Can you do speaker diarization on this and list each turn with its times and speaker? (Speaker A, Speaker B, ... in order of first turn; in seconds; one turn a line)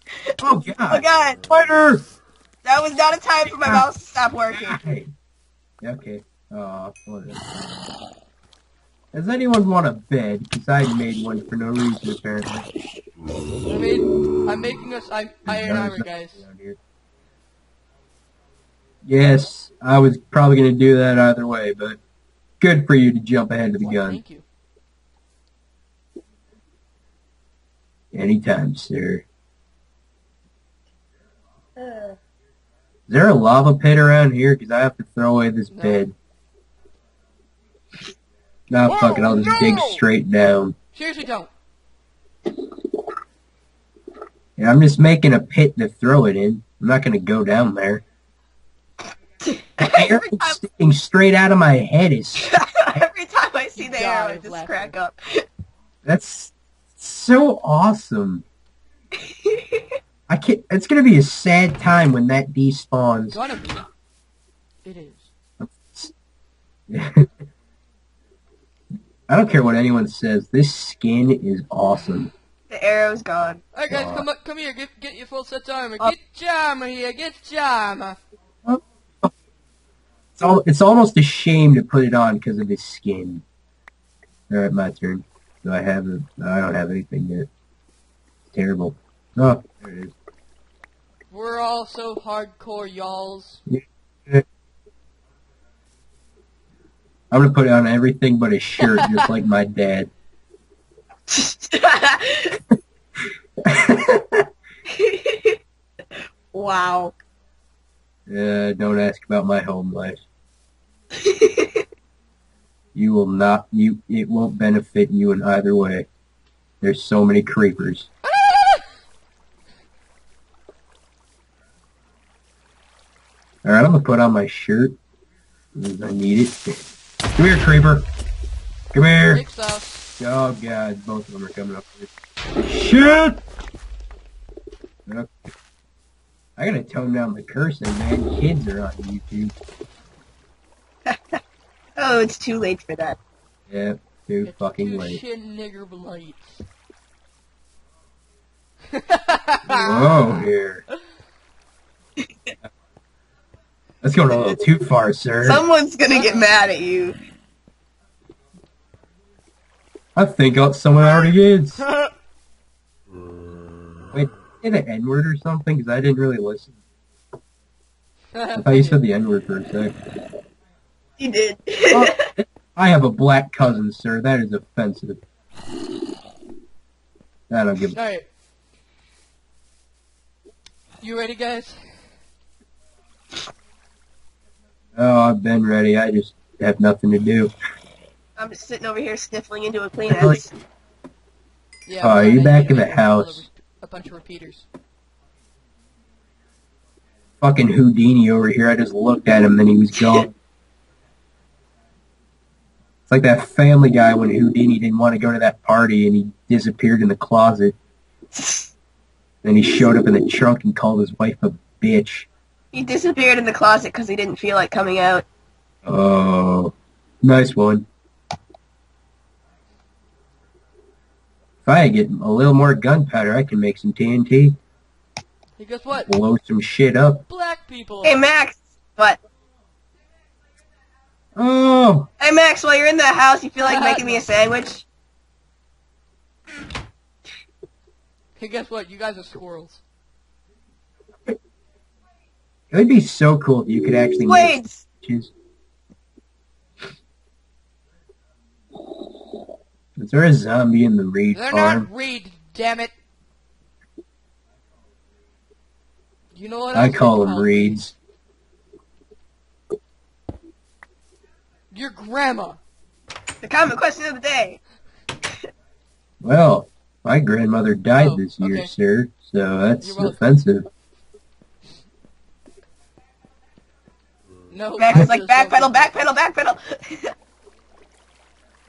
Speaker A: 0.4-2.0
Speaker B: 0.9-1.4
Speaker B: 2.6-4.8
Speaker A: 4.5-5.1
Speaker A: 5.8-7.5
Speaker A: 9.1-12.7
Speaker C: 13.7-16.4
Speaker A: 15.5-16.8
Speaker A: 19.1-22.0
Speaker A: 22.6-24.2
Speaker C: 23.6-24.4
Speaker A: 28.1-29.2
Speaker B: 31.8-32.2
Speaker A: 33.1-36.1
Speaker C: 35.7-36.1
Speaker A: 38.7-40.8
Speaker C: 38.9-40.0
Speaker C: 40.9-41.5
Speaker A: 44.6-48.0
Speaker B: 49.5-50.6
Speaker A: 49.8-52.6
Speaker B: 52.4-55.5
Speaker C: 53.8-55.0
Speaker A: 56.0-58.4
Speaker B: 59.5-59.8
Speaker A: 60.3-63.4
Speaker C: 63.3-63.9
Speaker C: 64.8-65.3
Speaker A: 65.6-66.1
Speaker A: 66.9-67.3
Speaker A: 69.3-72.3
Speaker C: 72.0-72.3
Speaker B: 72.7-73.6
Speaker C: 73.7-78.2
Speaker A: 73.9-74.3
Speaker A: 78.7-79.3
Speaker A: 80.4-83.4
Speaker A: 84.5-87.5
Speaker A: 88.5-90.2
Speaker C: 91.3-93.6
Speaker A: 93.7-94.5
Speaker A: 97.3-100.1
Speaker C: 98.8-99.3
Speaker B: 101.3-102.6
Speaker A: 103.6-104.5
Speaker B: 104.9-105.6
Speaker B: 106.5-107.1
Speaker A: 108.3-110.2
Speaker B: 111.2-111.8
Speaker A: 113.0-116.1
Speaker A: 116.8-118.1
Speaker C: 118.2-118.9
Speaker A: 123.6-125.0
Speaker A: 125.8-126.8
Speaker A: 127.4-128.1
Speaker A: 128.9-129.4
Speaker C: 129.3-130.1
Speaker A: 130.2-133.4
Speaker A: 135.1-135.5
Speaker A: 136.6-139.5
Speaker B: 141.1-141.4
Speaker B: 142.0-143.2
Speaker A: 143.7-145.2
Speaker C: 144.4-146.6
Speaker C: 148.9-150.2
Speaker A: 149.7-150.8
Speaker A: 154.0-155.6
Speaker B: 155.4-157.2
Speaker C: 156.1-156.5
Speaker A: 160.2-161.8
Speaker A: 164.1-166.7
Speaker C: 168.3-169.0
Speaker A: 168.6-169.9
Speaker B: 171.2-172.3
Speaker A: 171.9-175.2
Speaker A: 177.5-178.0
Speaker C: 177.9-178.3
Speaker C: 181.0-181.8
Speaker A: 185.0-187.5
Speaker B: 188.4-190.5
Speaker A: 190.1-190.4
Speaker C: 191.9-194.7
Speaker A: 192.0-193.4
Speaker A: 197.4-200.3
Speaker B: 200.0-200.2
Speaker A: 203.1-207.8
Speaker B: 208.3-208.7
Speaker A: 209.4-212.3
Speaker B: 212.7-215.2
Speaker A: 215.9-217.9
Speaker A: 221.7-224.6
Speaker C: 225.6-226.1
Speaker A: 226.1-227.2
Speaker C: 227.3-228.2
Speaker B: 228.0-229.2
Speaker A: 231.4-232.1
Speaker B: 232.2-234.9
Speaker C: 233.6-234.3
Speaker C: 238.4-239.8
Speaker A: 242.7-245.3
Speaker B: 244.2-244.8
Speaker A: 250.0-251.9
Speaker C: 251.3-252.9
Speaker C: 256.4-257.8
Speaker A: 256.7-257.9
Speaker C: 261.7-262.6
Speaker B: 263.4-264.6
Speaker A: 266.2-270.7
Speaker C: 268.0-268.7
Speaker C: 269.8-270.2
Speaker C: 274.5-275.9
Speaker B: 274.8-277.1